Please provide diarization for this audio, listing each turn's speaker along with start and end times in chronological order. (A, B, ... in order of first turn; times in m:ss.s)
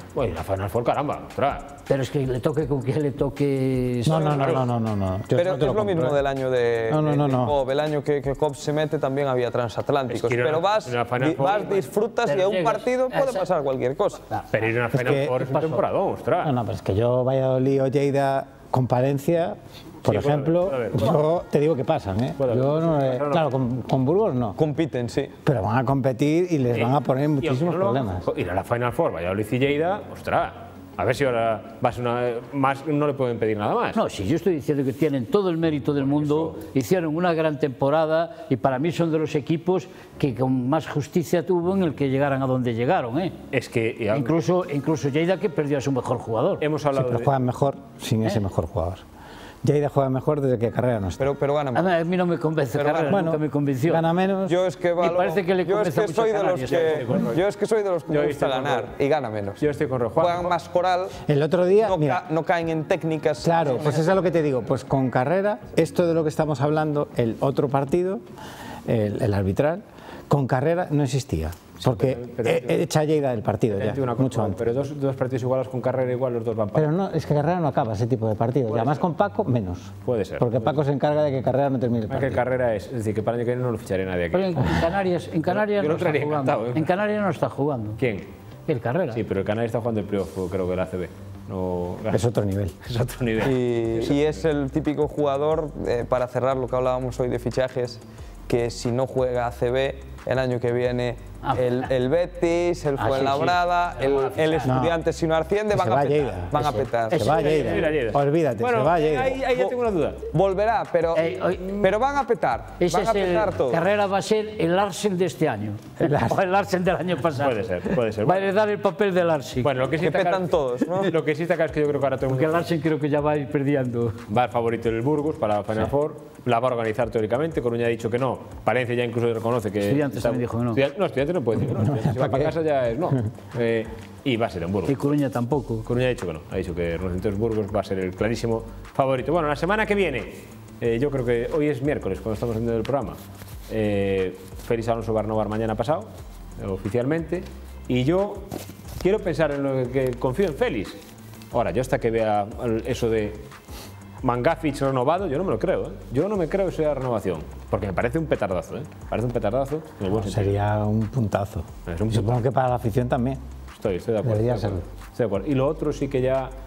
0:00.1-0:01.8 A
0:01.9-0:04.6 B
0:04.0-0:06.2 C
0:04.1-0:04.7 A
0:05.4-0:14.3 D
0:06.9-0:07.6 C
0:10.1-0:11.9 A
0:12.3-0:13.5 B
0:14.5-0:16.6 A
0:14.9-0:15.5 C
0:15.4-0:15.8 B
0:16.4-0:24.6 C
0:20.1-0:21.2 A
0:22.4-0:23.6 A
0:24.6-0:25.3 D
0:25.4-0:28.3 C
0:26.7-0:34.0 A
0:34.0-0:43.4 B
0:36.0-0:36.6 A
0:43.5-0:44.3 A
0:44.1-0:46.6 B
0:46.6-0:47.3 A
0:46.9-0:49.0 C
0:49.6-0:51.2 C
0:51.2-0:51.9 D
0:51.8-0:54.1 B
0:52.8-0:53.1 A
0:53.1-0:54.6 C
0:54.5-0:59.6 D
0:55.0-0:57.4 B
0:56.7-0:57.4 A
0:58.1-0:58.9 A
0:59.6-1:00.5 A
1:00.2-1:01.2 D
1:01.3-1:02.2 C
1:01.8-1:04.0 D
1:03.4-1:08.2 C
1:08.8-1:14.7 C
1:11.8-1:12.8 A
1:13.7-1:16.9 A
1:16.8-1:22.4 C
1:18.7-1:19.0 A
1:20.0-1:20.8 A
1:22.1-1:24.9 A
1:24.3-1:28.0 B
1:25.5-1:26.9 A
1:28.0-1:28.3 A
1:28.7-1:29.2 B
1:29.1-1:32.3 A
1:32.1-1:32.8 C
1:32.8-1:34.4 A
1:33.4-1:47.4 D
1:41.4-1:41.9 B
1:43.0-1:44.7 B
1:44.6-1:45.0 C
1:45.7-1:46.6 C
1:46.6-1:47.9 B
1:47.1-1:49.4 C
1:47.1-1:50.2 A
1:49.5-1:49.8 D
1:50.3-1:53.8 D
1:51.2-1:51.9 B
1:52.8-1:59.7 B
1:56.0-1:56.4 C
1:57.4-1:58.6 A
1:59.6-2:02.7 A
2:00.0-2:01.1 D
2:02.3-2:04.2 B
2:04.3-2:15.0 A
2:09.8-2:10.8 B
2:11.6-2:12.6 C
2:14.9-2:15.9 B
2:15.9-2:31.0 A
2:31.5-2:33.4 A
2:34.2-2:40.6 A
2:40.1-2:43.4 C
2:41.9-2:42.4 A
2:43.8-2:46.5 A
2:44.2-2:44.8 C